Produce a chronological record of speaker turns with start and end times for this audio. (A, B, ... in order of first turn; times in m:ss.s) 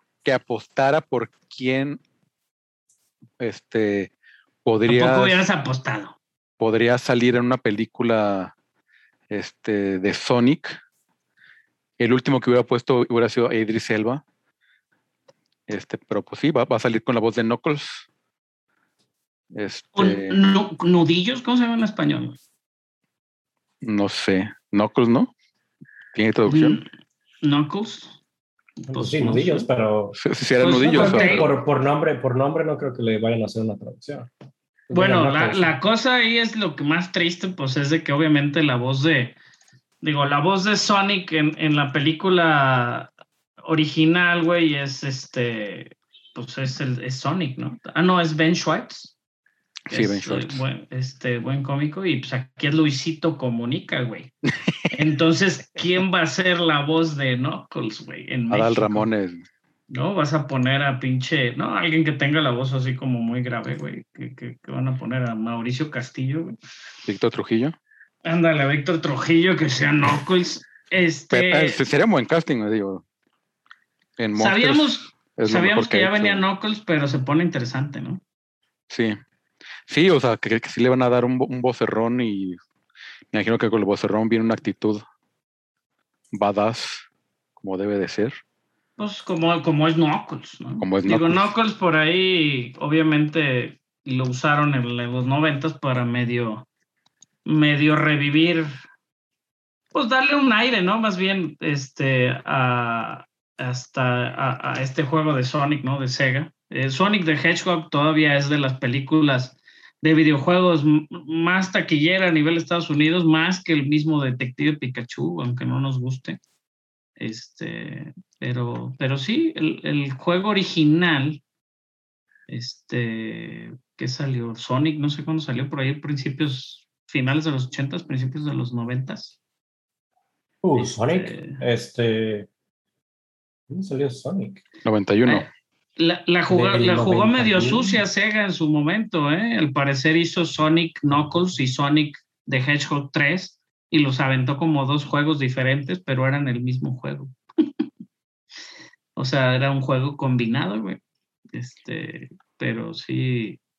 0:00.2-0:02.0 A
0:03.4-0:04.1 A
0:04.6-0:05.4 A
0:04.8-0:06.2 B
0:06.6-0:08.5 A
0:09.3-0:10.8 A
0:12.0-0:14.2 A
0:15.7-0:18.1 A
0:19.5-0:20.4 A
0:20.0-0:22.4 B
0:23.8-0:25.3 A
0:26.1-0:26.8 A
0:26.5-0:26.8 B
0:27.4-0:28.2 B
0:28.8-0:29.7 B
0:28.9-0:30.2 C
0:30.1-0:31.5 A
0:30.6-0:31.5 B
0:30.9-0:34.3 C
0:34.9-0:35.7 C
0:34.9-0:39.4 B
0:40.0-0:43.1 B
0:43.6-0:49.1 B
0:49.9-0:50.6 A
0:49.9-0:54.3 B
0:54.9-0:59.1 B
0:58.5-0:59.4 A
0:59.9-1:06.6 B
1:07.0-1:07.7 A
1:08.2-1:11.8 B
1:11.3-1:13.0 A
1:14.2-1:16.4 A
1:14.4-1:18.2 B
1:18.9-1:19.2 A
1:19.9-1:22.6 A
1:23.3-1:25.0 A
1:26.3-1:27.0 A
1:27.6-1:28.4 A
1:29.0-1:36.6 B
1:30.8-1:31.5 A
1:37.4-1:38.8 B
1:39.9-1:56.4 B
1:57.2-2:01.4 B
2:02.5-2:09.4 B
2:10.6-2:12.5 C
2:10.8-2:11.6 B
2:13.7-2:14.6 C
2:14.8-2:15.4 A
2:15.2-2:27.3 B
2:16.5-2:18.0 C
2:29.2-2:31.0 B
2:31.5-2:33.6 B